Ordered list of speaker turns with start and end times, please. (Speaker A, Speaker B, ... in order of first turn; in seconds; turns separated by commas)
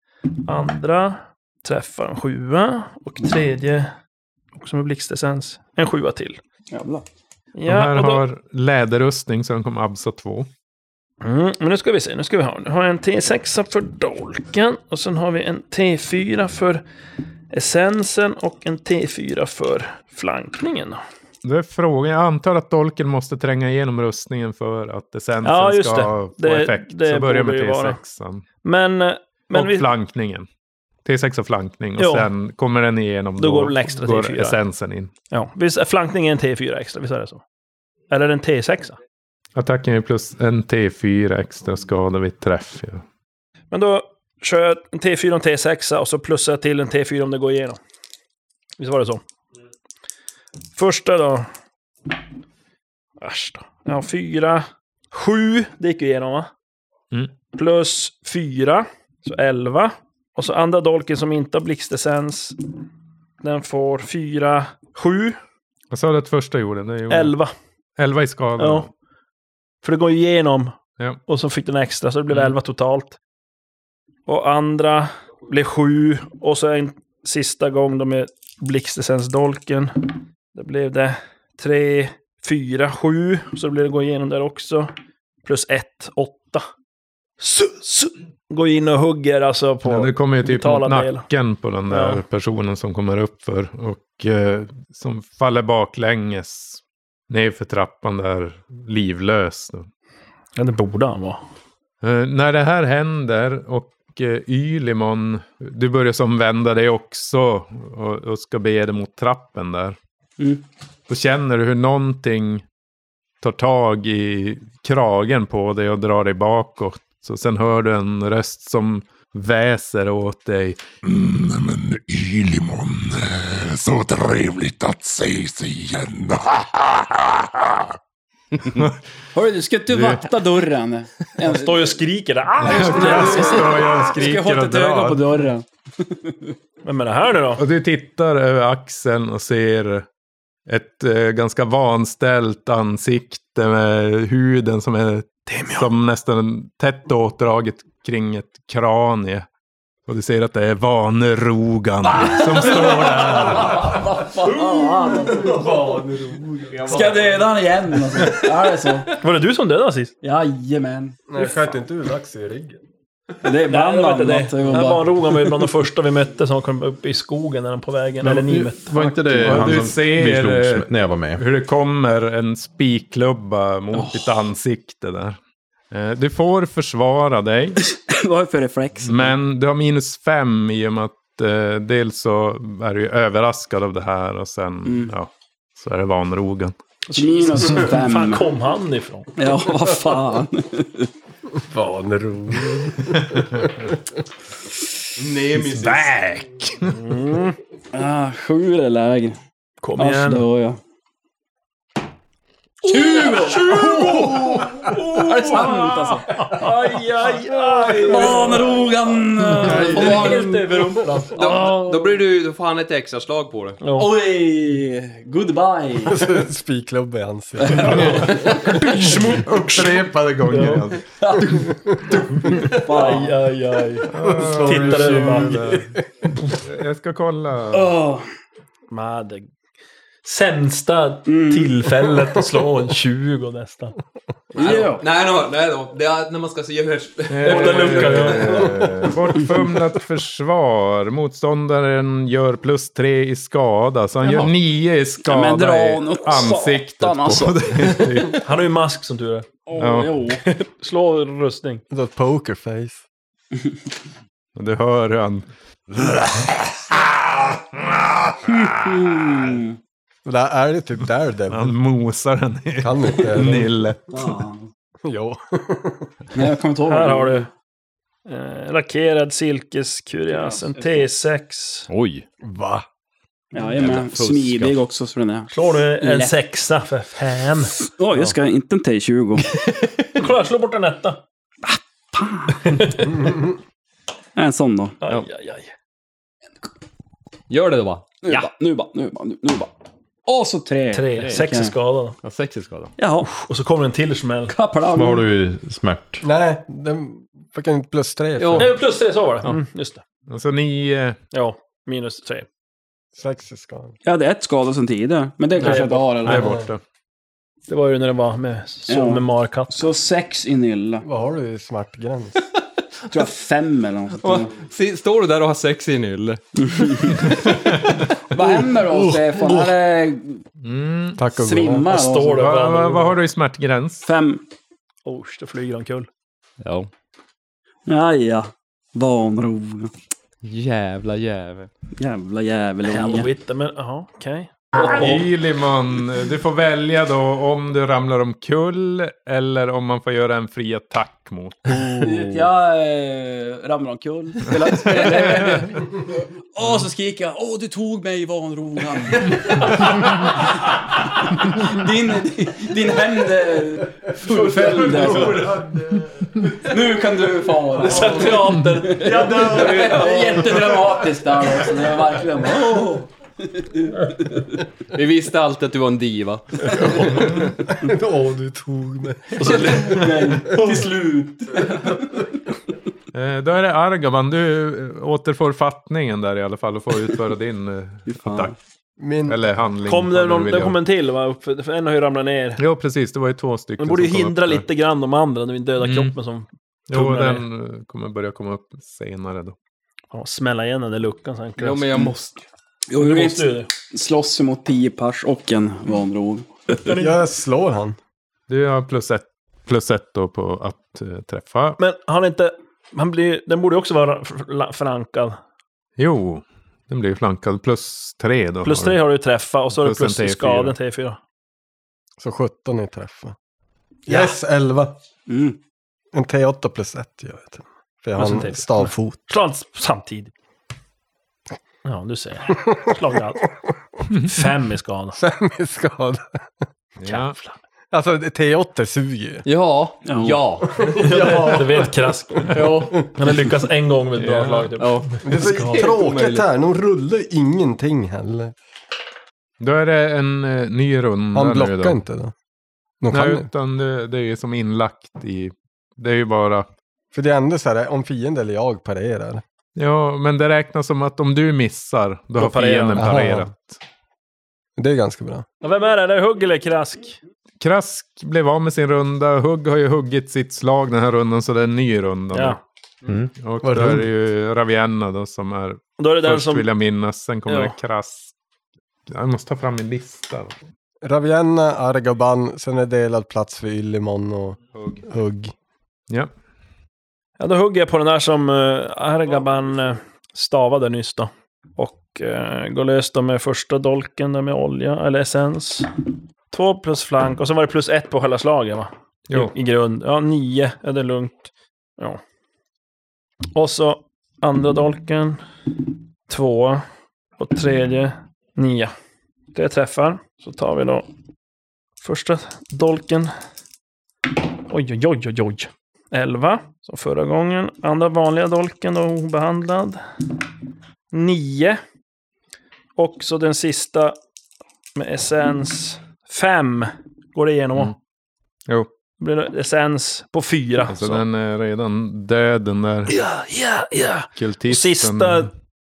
Speaker A: 0.4-3.9, Speaker A: 4.5-6.4, Speaker B: 6.7-7.0, Speaker A: 7.5-8.2, Speaker C: 7.7-10.5, Speaker A: 11.2-16.8, Speaker A: 17.5-21.0, Speaker C: 21.4-28.5, Speaker A: 25.4-28.0, Speaker A: 28.6-29.9, Speaker C: 29.5-30.5, Speaker C: 31.0-35.1, Speaker A: 32.0-32.3, Speaker A: 33.4-34.6, Speaker A: 35.3-37.4, Speaker A: 38.1-39.0, Speaker C: 39.5-43.0, Speaker A: 43.7-47.8, Speaker A: 48.8-49.2, Speaker A: 50.7-51.5, Speaker A: 53.2-56.5, Speaker A: 57.5-62.6, Speaker A: 63.4-65.4, Speaker C: 65.9-67.3, Speaker A: 67.1-67.5, Speaker C: 68.0-68.9, Speaker A: 68.6-68.9, Speaker A: 69.8-73.2, Speaker A: 74.2-84.9, Speaker A: 85.4-86.7, Speaker A: 87.4-91.3, Speaker C: 89.8-99.9, Speaker A: 91.9-92.2, Speaker A: 100.5-101.4, Speaker C: 102.0-110.0, Speaker C: 111.1-112.6, Speaker C: 113.4-120.8, Speaker D: 121.0-127.8, Speaker C: 128.6-129.0, Speaker B: 129.3-132.0, Speaker C: 129.9-130.2, Speaker A: 131.4-133.8, Speaker C: 132.6-135.2, Speaker B: 132.7-136.5, Speaker E: 133.6-133.9, Speaker A: 136.8-137.6, Speaker C: 137.6-140.1, Speaker C: 140.7-149.4, Speaker A: 145.5-145.9, Speaker C: 150.1-154.0, Speaker B: 152.1-155.8, Speaker E: 155.1-157.1, Speaker B: 156.8-159.2, Speaker A: 159.2-160.1, Speaker B: 160.2-161.5, Speaker E: 161.3-162.8, Speaker B: 163.4-165.1, Speaker A: 163.6-169.7, Speaker F: 168.2-171.4, Speaker C: 169.4-175.4, Speaker B: 173.9-174.3, Speaker C: 175.9-177.8, Speaker B: 177.8-179.3, Speaker C: 179.0-186.7, Speaker B: 184.8-185.1, Speaker A: 187.1-189.3, Speaker B: 187.1-188.4, Speaker B: 189.3-191.1, Speaker E: 191.6-193.9, Speaker G: 195.2-196.2, Speaker C: 195.8-196.9, Speaker A: 196.9-197.6, Speaker B: 197.9-199.4, Speaker A: 199.8-200.5, Speaker B: 200.0-200.8, Speaker B: 202.8-206.4, Speaker A: 202.8-212.0, Speaker E: 203.9-204.6, Speaker B: 208.0-210.7, Speaker E: 209.5-211.1, Speaker G: 211.3-213.8, Speaker A: 213.8-214.1, Speaker B: 213.9-216.2, Speaker E: 216.0-218.3, Speaker B: 217.6-219.0, Speaker A: 217.8-220.9, Speaker C: 218.8-221.0, Speaker E: 221.5-222.0, Speaker A: 222.4-225.8, Speaker B: 222.4-223.3, Speaker C: 224.1-225.9, Speaker E: 224.2-226.0, Speaker C: 226.5-227.9, Speaker B: 227.7-228.2, Speaker A: 228.9-229.5, Speaker A: 230.2-233.9, Speaker B: 231.2-231.9, Speaker B: 234.5-235.0, Speaker A: 234.6-234.9, Speaker G: 234.6-238.8, Speaker C: 237.3-248.4, Speaker A: 237.4-238.9, Speaker B: 245.2-248.0, Speaker A: 248.3-249.5, Speaker B: 249.7-250.4, Speaker C: 249.8-250.2, Speaker A: 250.5-251.8, Speaker E: 251.9-253.0, Speaker C: 254.6-257.9, Speaker B: 258.4-259.8, Speaker E: 260.2-261.7, Speaker C: 261.5-264.4, Speaker E: 262.8-263.7, Speaker B: 264.1-264.7, Speaker E: 265.0-266.1, Speaker B: 266.3-267.5, Speaker A: 266.9-267.5, Speaker A: 268.2-271.9, Speaker B: 270.3-271.0, Speaker G: 271.9-272.2, Speaker E: 272.4-272.8, Speaker B: 273.5-276.3, Speaker G: 273.7-274.8, Speaker A: 275.5-277.8, Speaker B: 277.8-279.5, Speaker A: 280.0-281.2, Speaker B: 281.6-282.9, Speaker A: 282.6-283.1, Speaker B: 284.4-285.0, Speaker A: 285.0-285.7, Speaker G: 287.5-288.5, Speaker B: 288.2-289.7, Speaker B: 290.2-291.7, Speaker A: 290.9-292.2, Speaker G: 292.2-292.9, Speaker B: 293.0-293.3, Speaker A: 293.2-294.5, Speaker B: 294.5-295.2, Speaker F: 294.9-296.2, Speaker E: 296.2-298.7, Speaker G: 298.4-298.7, Speaker A: 298.5-300.0, Speaker C: 300.3-301.2, Speaker A: 301.3-302.5, Speaker E: 303.1-303.9, Speaker B: 304.0-306.6, Speaker A: 305.6-306.6, Speaker C: 306.2-306.8, Speaker E: 306.3-306.7, Speaker A: 307.7-309.7, Speaker B: 308.9-311.0, Speaker E: 311.0-312.4, Speaker B: 313.1-314.5, Speaker G: 314.2-316.9, Speaker B: 316.6-317.4, Speaker C: 317.4-318.0, Speaker B: 318.3-320.4, Speaker E: 318.8-319.7, Speaker C: 320.6-321.2, Speaker E: 321.1-321.9, Speaker B: 321.4-322.4, Speaker A: 321.8-323.2, Speaker C: 322.3-324.1, Speaker B: 324.0-324.4, Speaker A: 325.0-326.1, Speaker G: 326.6-326.9, Speaker B: 327.9-329.9, Speaker G: 330.4-331.7, Speaker B: 331.9-333.3, Speaker A: 332.9-335.2, Speaker C: 334.8-342.1, Speaker B: 341.9-346.0, Speaker C: 344.6-345.7, Speaker B: 346.5-350.5, Speaker B: 351.0-355.6, Speaker E: 354.5-355.8, Speaker A: 354.6-355.5, Speaker B: 356.5-364.4, Speaker A: 357.8-360.4, Speaker E: 358.0-358.3, Speaker E: 359.2-359.8, Speaker G: 364.9-367.1, Speaker E: 366.9-369.7, Speaker A: 369.4-370.1, Speaker B: 369.4-372.0, Speaker C: 373.1-378.6, Speaker B: 378.1-378.5, Speaker E: 379.0-379.4, Speaker C: 379.3-380.8, Speaker A: 379.8-382.6, Speaker C: 382.6-384.6, Speaker A: 383.8-387.4, Speaker C: 385.8-386.1, Speaker C: 386.9-389.5, Speaker A: 390.1-392.1, Speaker G: 391.6-392.4, Speaker B: 392.9-396.8, Speaker A: 392.9-393.7, Speaker A: 396.8-397.2, Speaker E: 396.9-398.0, Speaker C: 398.5-401.8, Speaker A: 401.8-405.4, Speaker C: 406.0-409.0, Speaker A: 408.6-411.2, Speaker C: 409.7-410.7, Speaker E: 412.2-413.3, Speaker E: 414.1-414.9, Speaker A: 414.1-414.3, Speaker B: 415.3-415.6, Speaker E: 416.1-419.2, Speaker A: 418.2-420.3, Speaker A: 421.8-423.5, Speaker A: 424.2-425.2, Speaker E: 425.1-426.6, Speaker C: 427.0-427.4, Speaker A: 427.1-427.5, Speaker E: 427.9-429.4, Speaker G: 429.4-430.9, Speaker B: 430.0-430.4, Speaker E: 430.8-432.0, Speaker A: 430.8-435.9, Speaker G: 432.5-433.1, Speaker C: 434.2-434.7, Speaker G: 434.8-436.4, Speaker E: 435.2-438.5, Speaker C: 439.6-442.0, Speaker E: 441.3-442.3, Speaker E: 443.0-443.5, Speaker C: 443.1-446.7, Speaker E: 447.1-449.4, Speaker C: 449.8-453.8, Speaker A: 452.4-453.1, Speaker E: 452.9-453.5, Speaker E: 454.8-455.4, Speaker A: 455.6-457.2, Speaker C: 457.6-462.6, Speaker A: 462.3-462.6, Speaker F: 463.1-463.3, Speaker C: 463.4-468.3, Speaker E: 463.6-464.1, Speaker A: 466.0-466.7, Speaker G: 467.5-467.7, Speaker C: 469.1-470.5, Speaker E: 471.0-475.5, Speaker A: 477.4-485.9, Speaker A: 486.5-492.2, Speaker A: 493.5-495.4, Speaker A: 496.3-496.8, Speaker A: 497.4-498.9, Speaker A: 499.5-501.1, Speaker A: 502.0-503.3, Speaker A: 504.7-510.0, Speaker A: 511.1-511.8, Speaker A: 513.0-514.2, Speaker A: 515.0-518.0, Speaker A: 519.2-521.2, Speaker C: 520.9-523.1, Speaker A: 523.1-525.5, Speaker C: 524.4-525.5